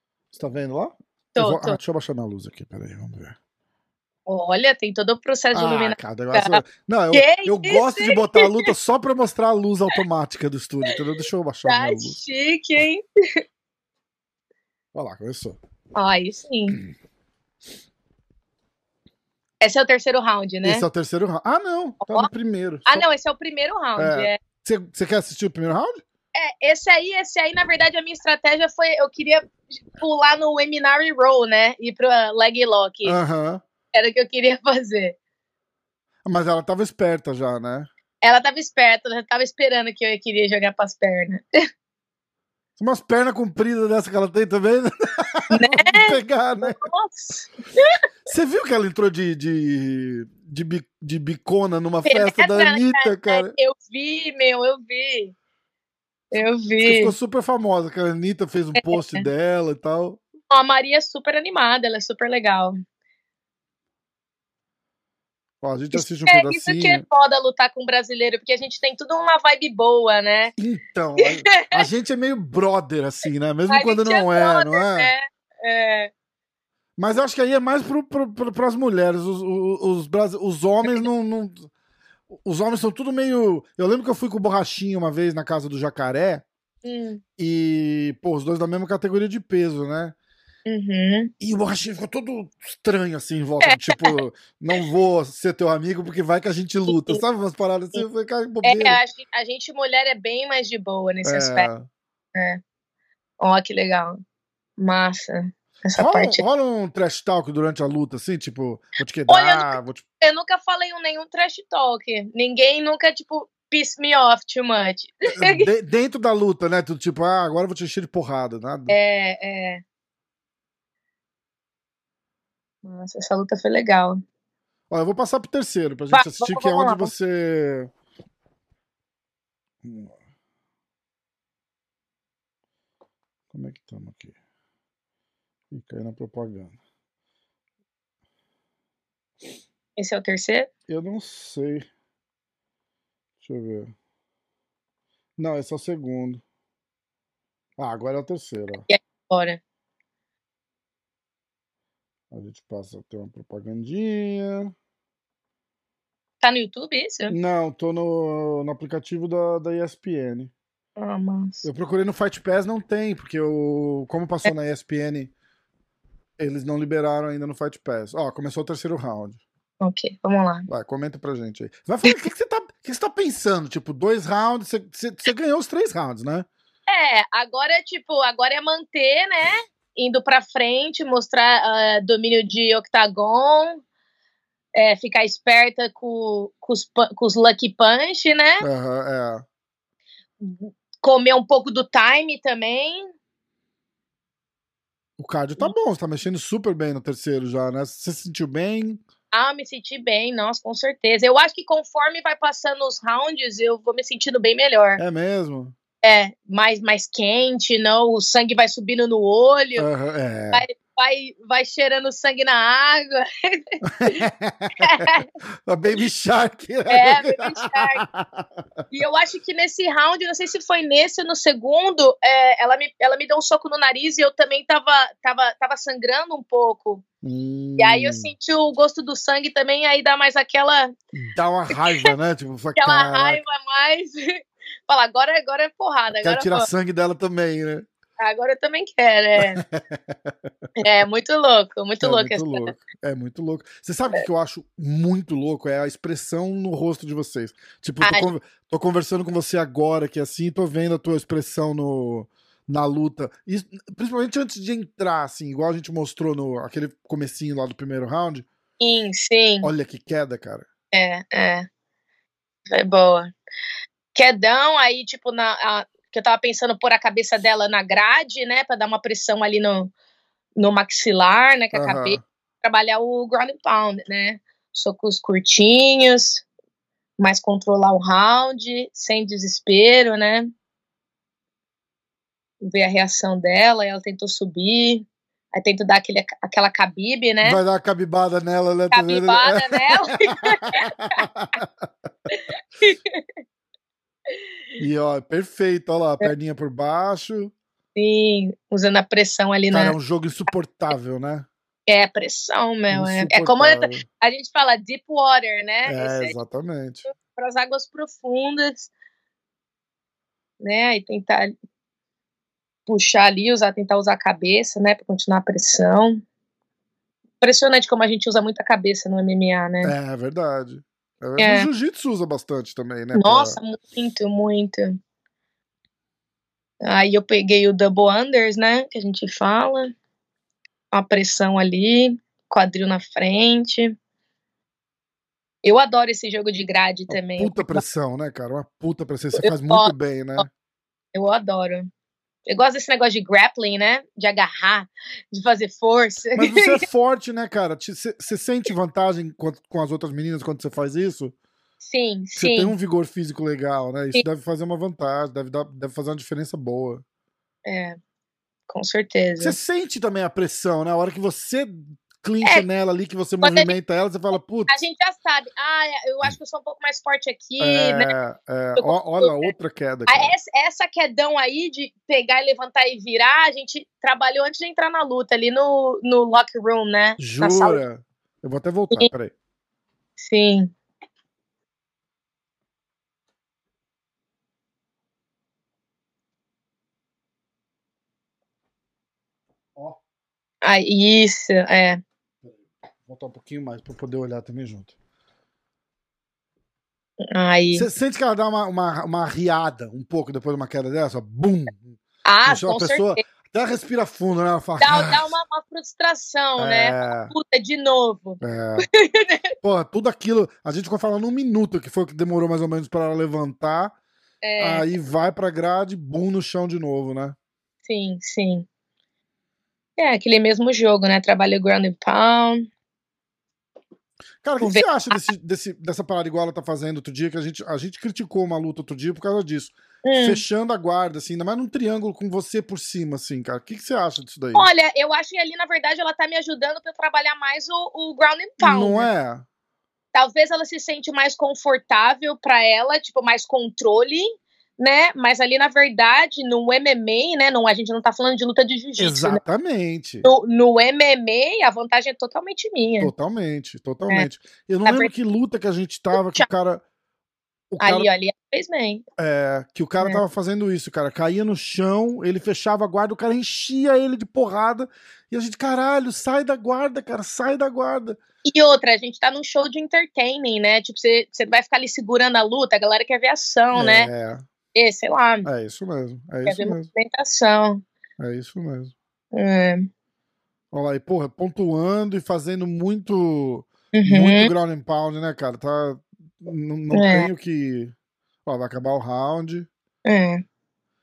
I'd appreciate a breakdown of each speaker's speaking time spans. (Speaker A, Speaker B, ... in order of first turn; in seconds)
Speaker A: 0.3-3.4, 5.5-12.2, 14.9-15.6, 20.6-23.1, 24.0-26.0, 33.0-33.6, 36.2-37.9, 42.8-46.8, 48.2-53.5, 56.8-60.2, 65.6-67.0, 70.6-75.1, 77.0-81.7, 82.3-86.4, 87.4-90.1, 91.4-99.0, 101.2-101.9, 105.9-110.0, 115.3-119.0, 124.9-127.9, 129.8-130.2, 133.5-134.3, 135.7-136.8, 140.9-141.8, 143.4-143.9, 145.4-146.4, 147.8-148.8, 152.3-154.7, 157.3-160.5, 161.6-165.3, 166.4-169.4, 170.7-176.5, 188.6-189.4, 195.2-199.0, 205.0-205.7, 209.8-210.6, 213.8-218.6, 227.2-228.3, 231.1-233.4, 236.1-237.8, 239.4-240.5, 242.0-258.5, 259.6-260.7, 271.7-272.2, 287.4-291.9, 294.8-297.5, 299.7-301.5, 302.9-304.1, 305.9-307.1, 319.8-323.6, 337.1-340.5, 346.3-351.3, 352.4-357.0, 359.4-364.8, 367.6-370.3, 377.2-379.3, 389.7-390.0, 392.4-394.9, 397.7-405.4, 406.6-407.3, 408.4-408.9, 409.6-413.9, 414.6-417.4, 424.4-434.7, 438.6-439.4, 449.0-450.3, 453.0-456.8, 457.7-458.1, 459.2-468.2, 473.7-474.4, 475.4-476.9, 478.2-478.9, 480.7-487.9, 488.4-489.7
Speaker B: 1.3-1.8, 4.3-8.7, 11.6-13.0, 15.9-16.8, 19.6-20.8, 22.9-24.4, 26.3-33.2, 33.9-35.1, 38.2-41.4, 45.5-48.0, 52.0-55.3, 56.3-57.1, 58.8-59.2, 60.5-62.8, 65.9-70.5, 71.2-71.8, 73.7-76.1, 86.8-87.2, 90.7-91.3, 93.6-94.2, 96.9-97.2, 98.6-101.7, 102.3-102.6, 103.4-104.2, 104.8-106.4, 109.3-115.7, 118.9-119.8, 122.8-124.2, 126.1-127.1, 140.0-140.7, 148.9-149.6, 156.4-157.3, 161.0-161.6, 169.8-170.7, 176.9-183.8, 184.8-188.7, 190.4-193.1, 199.3-205.0, 206.0-209.9, 210.5-214.2, 214.8-215.2, 216.9-218.0, 218.9-227.0, 227.8-230.9, 231.8-232.1, 232.8-236.7, 238.2-239.6, 240.8-242.7, 248.0-248.3, 258.8-259.7, 260.9-261.7, 262.7-263.3, 264.1-269.9, 270.6-276.4, 277.2-280.5, 282.6-287.6, 288.9-291.2, 292.3-293.2, 297.9-299.9, 301.9-306.4, 307.1-308.9, 310.6-311.5, 312.9-316.2, 317.4-319.9, 321.4-321.7, 323.1-325.0, 326.8-329.9, 330.9-333.9, 335.6-337.8, 339.4-340.4, 341.1-341.9, 342.5-346.8, 351.8-352.7, 357.6-358.0, 358.7-359.6, 363.4-363.7, 364.7-368.1, 368.8-369.5, 370.1-377.8, 380.2-380.7, 390.6-392.0, 397.2-397.9, 402.2-403.2, 404.8-409.5, 414.4-414.9, 417.8-418.6, 420.0-422.7, 424.6-425.2, 430.0-430.4, 434.5-439.1, 440.1-449.4, 450.2-453.1, 454.8-455.1, 456.1-456.4, 457.8-459.0, 468.4-474.1, 474.7-475.5, 476.4-477.8, 479.3-479.9, 483.9-484.5, 486.9-487.3, 490.0-490.4